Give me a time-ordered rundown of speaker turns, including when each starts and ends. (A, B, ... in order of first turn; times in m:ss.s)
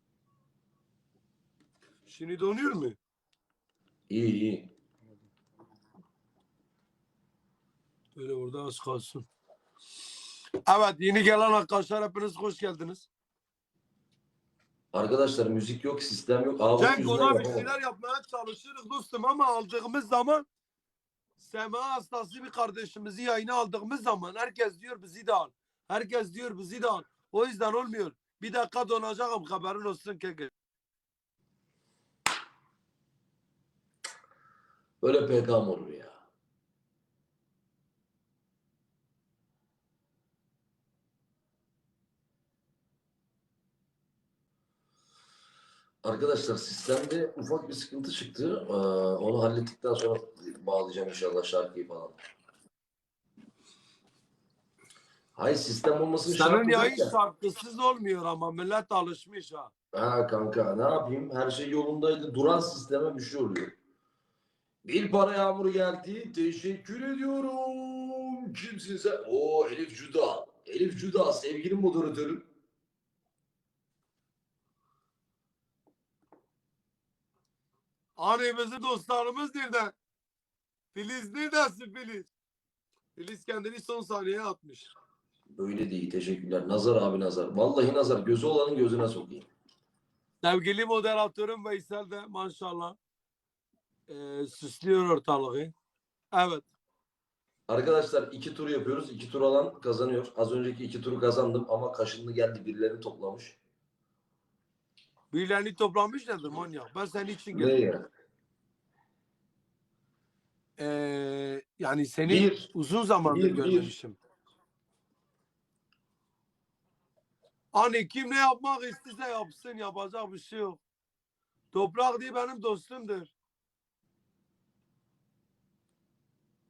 0:02.0-0:03.0 A
0:04.1-0:04.7 B
0:08.2-0:09.2 A
0:10.7-0:13.1 A
0:14.9-0:17.7 B
0:16.8-0:20.4 A
0:21.4-0:30.5 A
0:35.0-0:36.2 B
0:46.0-0:52.2 B
0:55.4-0:57.1 B
0:56.3-0:59.7 A
0:59.9-1:03.7 B
1:04.8-1:12.4 B
1:18.2-1:19.9 A
1:20.9-1:22.3 A
1:23.2-1:24.9 A
1:25.5-1:29.5 B
1:30.4-1:33.0 A
1:34.1-1:35.7 A
1:36.3-1:36.7 A
1:37.7-1:43.6 B
1:45.3-1:47.8 A
1:47.5-1:48.0 B
1:50.8-1:54.2 A
1:52.3-1:52.7 B
1:53.2-1:53.9 B
1:57.7-2:00.8 A
2:01.7-2:03.3 A